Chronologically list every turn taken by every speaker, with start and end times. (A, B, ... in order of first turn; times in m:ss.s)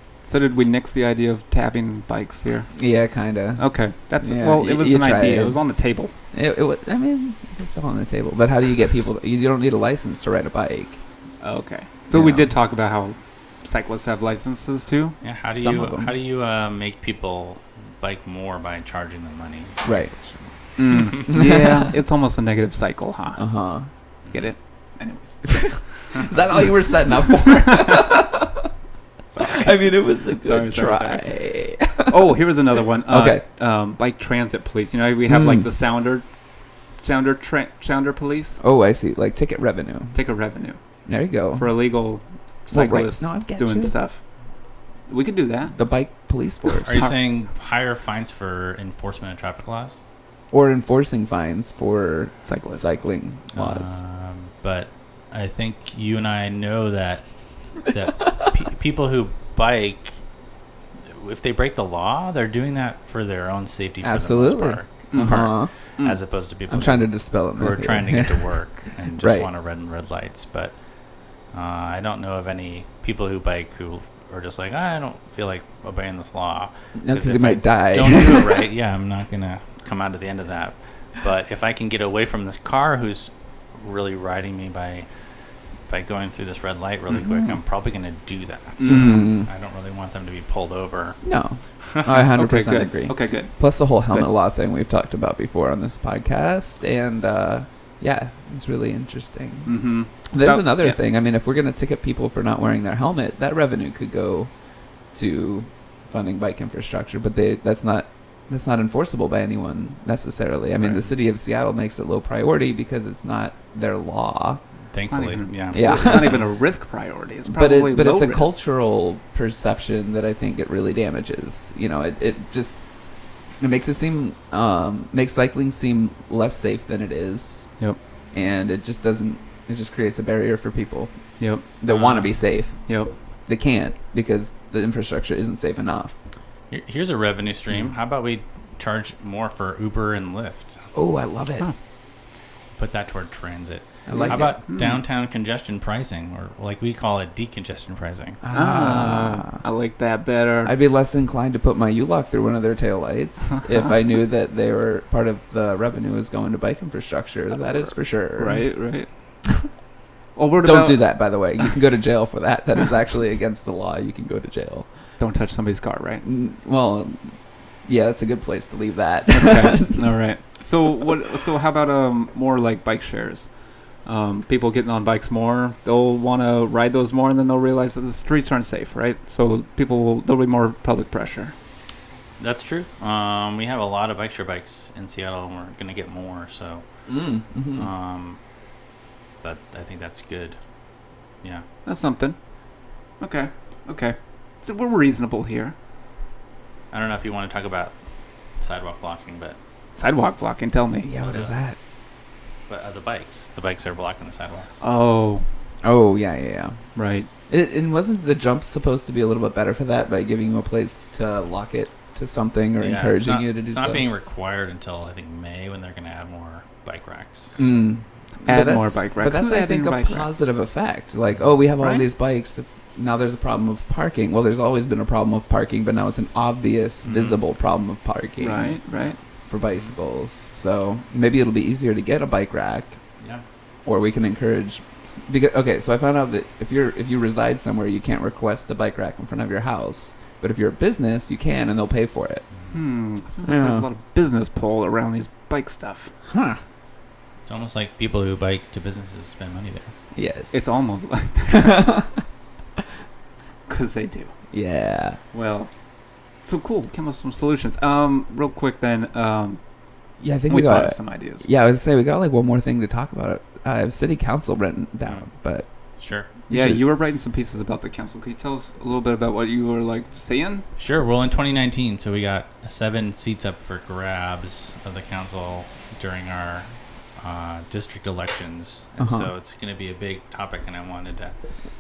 0:00.3-0:02.8 A
0:02.8-0:03.7 B
0:03.6-0:06.1 A
0:04.2-0:05.6 B
0:06.3-0:11.0 B
0:11.4-0:15.2 A
0:12.1-0:12.5 B
0:15.2-0:21.4 C
0:15.5-0:16.1 B
0:19.8-0:20.2 B
0:20.8-0:23.4 A
0:20.8-0:21.8 B
0:23.4-0:23.9 B
0:24.3-0:25.8 A
0:25.5-0:28.6 B
0:26.6-0:28.3 A
0:29.3-0:31.4 A
0:29.4-0:32.4 B
0:32.0-0:36.2 A
0:33.0-0:33.4 B
0:35.3-0:35.7 B
0:37.0-0:38.6 A
0:38.6-0:40.2 B
0:40.1-0:40.8 A
0:41.1-0:41.8 B
0:41.5-0:44.2 A
0:42.7-0:43.9 B
0:45.1-0:45.8 A
0:45.7-0:47.1 B
0:46.7-0:47.2 A
0:46.8-0:50.0 C
0:50.5-0:54.0 B
0:52.5-0:52.9 A
0:53.5-0:57.2 C
0:57.8-1:00.1 C
1:01.1-1:10.8 C
1:04.0-1:05.7 B
1:05.1-1:06.2 A
1:06.7-1:08.6 B
1:09.2-1:09.5 B
1:11.5-1:25.1 C
1:17.0-1:18.6 B
1:25.9-1:31.2 C
1:27.1-1:27.6 A
1:28.8-1:29.3 A
1:28.8-1:29.5 B
1:31.2-1:39.8 B
1:31.8-1:32.3 C
1:32.3-1:34.3 A
1:39.7-1:41.0 A
1:40.3-1:44.5 B
1:45.1-1:54.6 B
1:50.8-1:51.2 C
1:54.9-1:56.4 C
1:55.1-1:58.6 A
1:55.7-1:56.4 B
1:57.5-2:02.8 B
2:03.6-2:07.7 B
2:08.3-2:11.1 B
2:11.4-2:11.7 A
2:11.8-2:12.8 B
2:11.9-2:12.4 C
2:12.9-2:13.1 A
2:13.5-2:16.2 B
2:16.7-2:20.8 C
2:20.9-2:21.7 B
2:22.8-2:28.4 C
2:24.1-2:24.6 B
2:24.2-2:25.0 A
2:28.4-2:29.6 B
2:28.5-2:30.7 A
2:30.6-2:38.8 B
2:38.3-2:39.1 A
2:40.4-2:41.6 A
2:40.6-2:44.9 B
2:45.2-2:46.2 A
2:46.2-2:47.3 B
2:47.9-2:50.0 B
2:49.3-2:53.5 A
2:54.0-3:01.5 A
3:02.4-3:06.8 C
3:07.1-3:07.9 B
3:07.7-3:08.4 C
3:09.4-3:10.6 C
3:11.8-3:12.4 A
3:13.2-3:15.8 A
3:16.9-3:17.9 C
3:18.6-3:19.6 C
3:20.0-3:21.2 A
3:21.0-3:21.8 B
3:21.2-3:21.6 C
3:22.7-3:24.7 C
3:24.8-3:25.5 A
3:25.8-3:26.8 B
3:27.0-3:27.3 A
3:27.5-3:34.1 B
3:32.8-3:37.7 C
3:37.6-3:48.8 B
3:38.4-3:40.3 A
3:41.8-3:42.1 A
3:47.0-3:47.4 C
3:48.4-3:49.2 A
3:49.4-3:53.0 B
3:53.8-4:02.5 B
4:02.7-4:06.1 A
4:03.5-4:03.9 B
4:06.3-4:06.6 B
4:07.4-4:09.9 C
4:10.2-4:10.9 B
4:10.5-4:12.0 A
4:11.5-4:12.2 B
4:13.7-4:14.3 A
4:14.5-4:15.2 B
4:15.3-4:15.7 A
4:16.4-4:19.6 A
4:20.2-4:25.7 B
4:20.5-4:21.5 A
4:26.0-4:26.3 C
4:26.5-4:30.6 A
4:26.5-4:26.8 B
4:30.8-4:41.4 C
4:39.0-4:39.3 B